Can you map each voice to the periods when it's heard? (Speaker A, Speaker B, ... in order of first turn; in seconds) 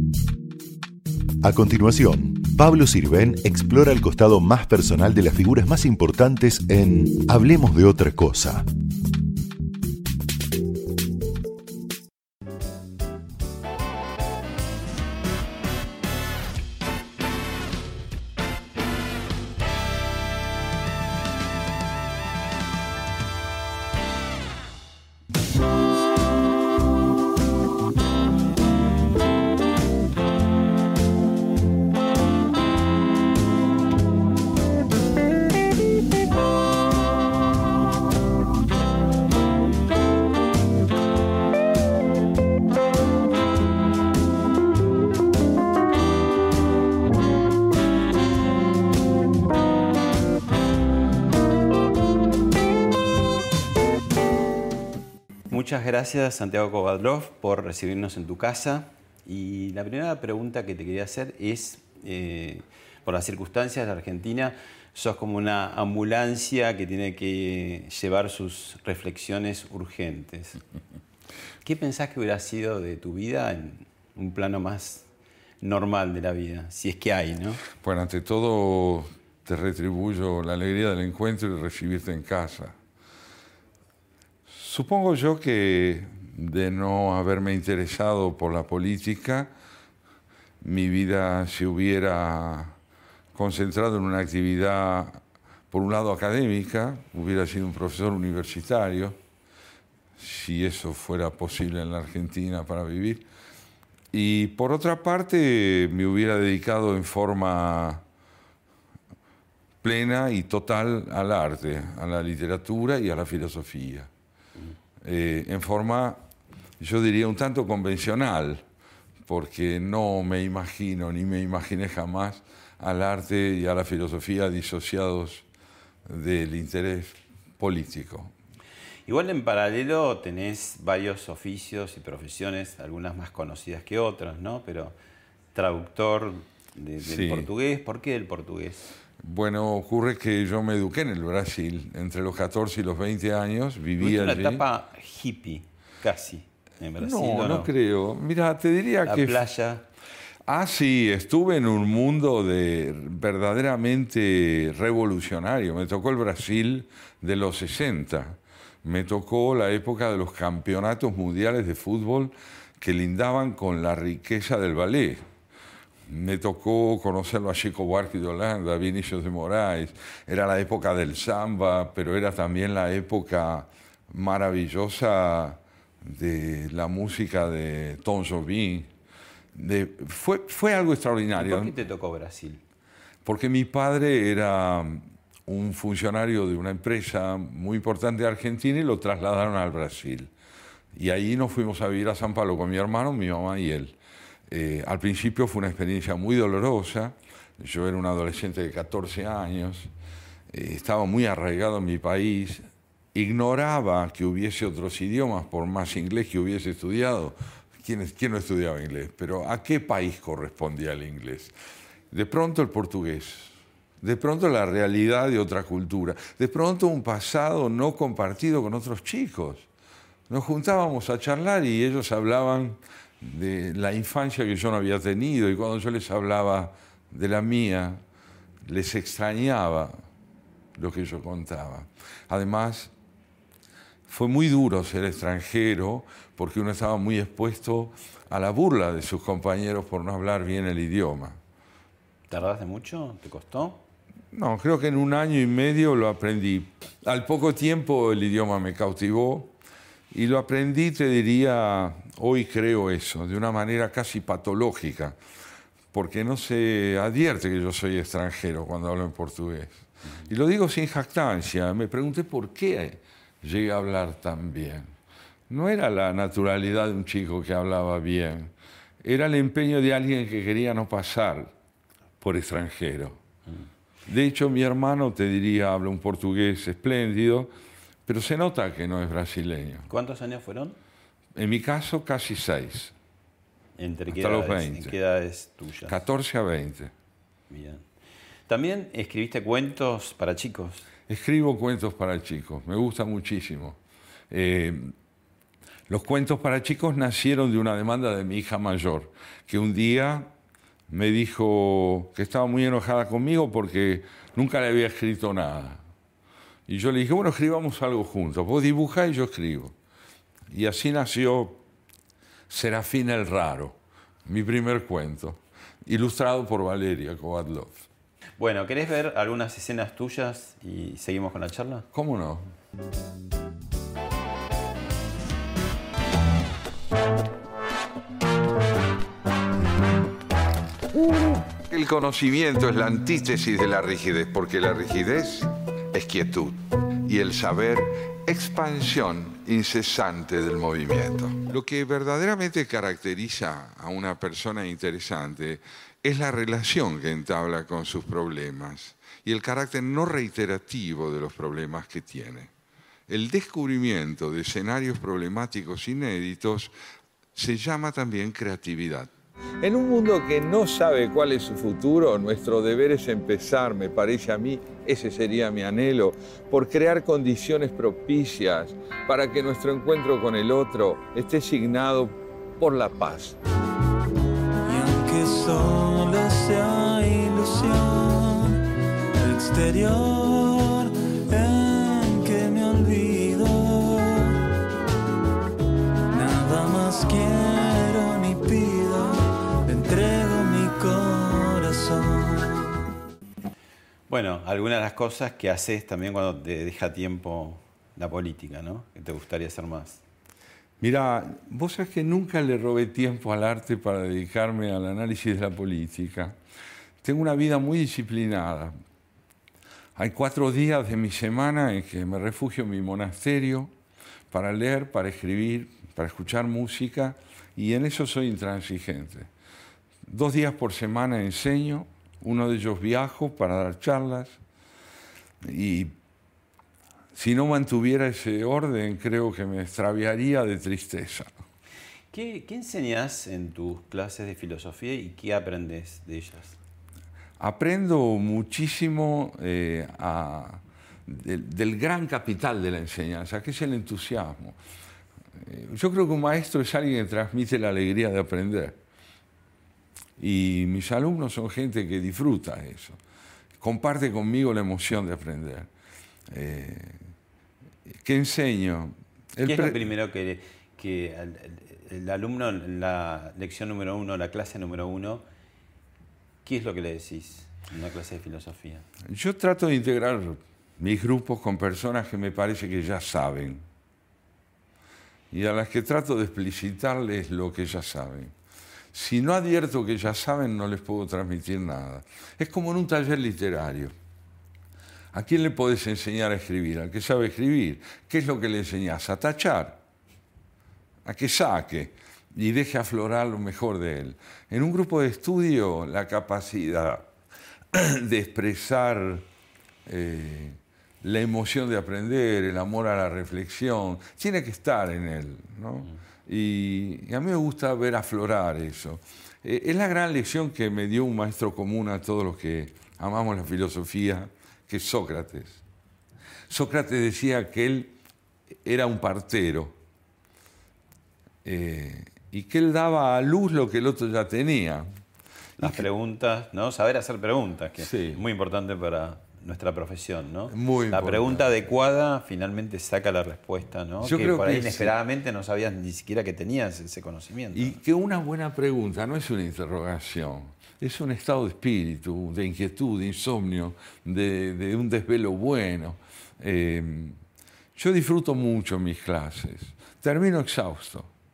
Speaker A: 1.4-8.7
Speaker B: 55.5-70.6, 71.6-75.1, 75.6-77.6, 129.1-135.0, 135.5-138.9, 144.0-147.7, 149.1-149.9, 181.4-182.6, 242.3-243.8, 279.9-280.8, 283.8-286.0, 287.5-287.9, 288.5-290.9, 318.4-321.9, 394.1-400.0, 432.1-436.6, 459.4-465.2, 466.4-468.9, 525.6-537.8
Speaker C: 77.7-82.8, 84.5-89.5, 90.6-92.8, 93.3-99.2, 100.2-103.3, 104.1-108.0, 109.8-114.1, 115.0-116.2, 116.8-118.7, 119.3-125.5, 126.1-128.3, 137.0-137.5, 139.2-144.7, 147.0-149.4, 150.5-165.3, 166.1-178.9, 179.5-181.8, 183.2-190.3, 190.9-194.0, 194.5-199.9, 200.5-211.5, 212.1-219.7, 220.3-228.0, 228.7-230.0, 230.8-232.9, 234.1-241.4, 244.3-249.5, 250.1-255.2, 255.9-264.9, 265.5-271.5, 272.2-273.2, 274.1-277.5, 278.1-279.9, 281.4-282.9, 284.1-284.9, 285.9-286.9, 291.1-293.8, 294.3-294.9, 295.9-300.3, 300.9-305.8, 306.7-309.7, 310.5-311.6, 312.5-317.9, 321.9-322.5, 331.7-352.5, 353.1-356.7, 357.4-373.4, 400.8-406.4, 407.0-408.7, 410.0-413.7, 414.3-419.3, 420.0-424.4, 425.4-425.9, 427.1-431.3, 437.4-444.6, 445.4-448.8, 450.2-453.0, 453.6-455.7, 456.3-457.1, 458.0-459.8, 469.1-473.6, 475.3-478.3, 478.9-483.9, 485.1-489.8, 491.1-497.1, 497.7-499.3, 499.9-515.6, 516.5-517.9, 518.6-519.8, 521.5-524.9, 525.6-525.9, 527.8-528.2, 530.5-531.5, 534.0-534.9, 537.5-547.2, 547.8-551.1
Speaker D: 374.7-378.6, 379.1-384.4, 386.1-392.8